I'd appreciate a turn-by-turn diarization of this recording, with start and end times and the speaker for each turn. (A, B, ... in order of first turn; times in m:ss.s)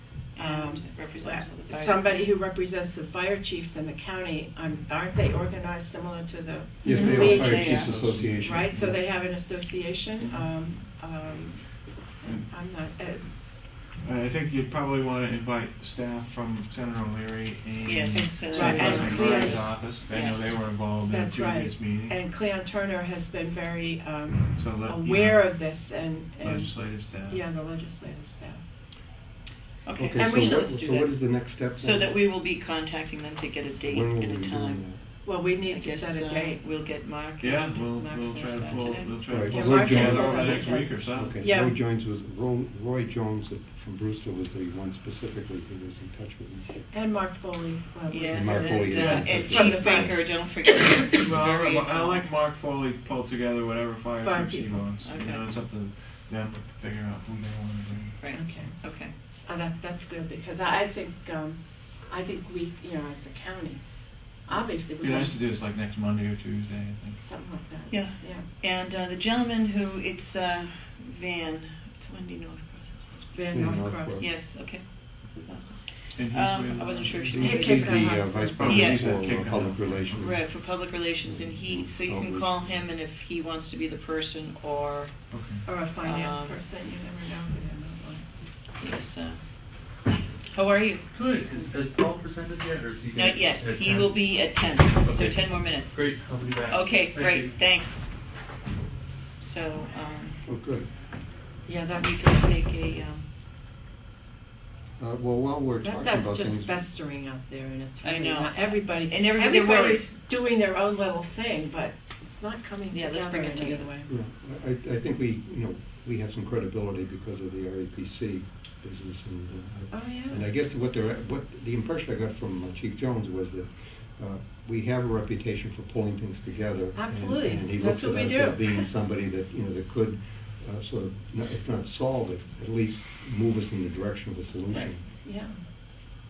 0:00.3-0:07.7 A
0:00.4-0:02.3 B
0:06.8-0:09.0 C
0:06.8-0:08.0 B
0:06.9-0:08.7 D
0:08.4-0:13.3 A
0:13.9-0:22.2 D
0:17.8-0:20.6 B
0:18.1-0:19.7 A
0:21.1-0:28.6 A
0:24.6-0:25.6 D
0:26.4-0:27.4 D
0:29.8-0:31.2 B
0:30.0-0:32.2 C
0:30.2-0:30.6 A
0:31.8-0:34.8 B
0:33.8-0:35.0 C
0:35.2-0:36.6 A
0:35.5-0:39.7 B
0:37.4-0:41.4 D
0:38.4-0:41.8 A
0:39.3-0:46.9 C
0:46.9-0:50.4 A
0:48.1-0:52.3 B
0:48.3-0:50.2 C
0:51.2-0:58.2 D
0:54.2-0:54.9 A
0:55.0-0:55.5 B
0:58.2-0:59.1 B
0:58.3-0:58.8 A
0:59.5-1:03.9 A
1:04.4-1:05.4 A
1:05.0-1:07.2 D
1:07.2-1:08.5 A
1:07.9-1:19.1 B
1:13.3-1:14.2 A
1:13.5-1:14.3 C
1:16.1-1:17.6 D
1:17.2-1:20.5 C
1:17.4-1:18.6 A
1:18.5-1:20.3 D
1:20.2-1:25.1 B
1:21.2-1:22.7 C
1:25.3-1:25.7 D
1:25.6-1:28.3 A
1:26.0-1:26.6 B
1:28.8-1:29.4 B
1:30.5-1:31.0 B
1:31.1-1:37.6 E
1:33.1-1:36.1 B
1:36.7-1:38.0 B
1:39.4-1:40.4 B
1:40.4-1:40.9 C
1:41.6-1:42.3 A
1:41.9-1:43.2 B
1:45.0-1:46.8 C
1:45.8-1:54.1 A
1:48.0-1:50.1 B
1:52.9-1:53.9 B
1:54.1-2:15.0 C
1:59.9-2:00.4 A
2:07.0-2:08.9 A
2:15.2-2:15.6 A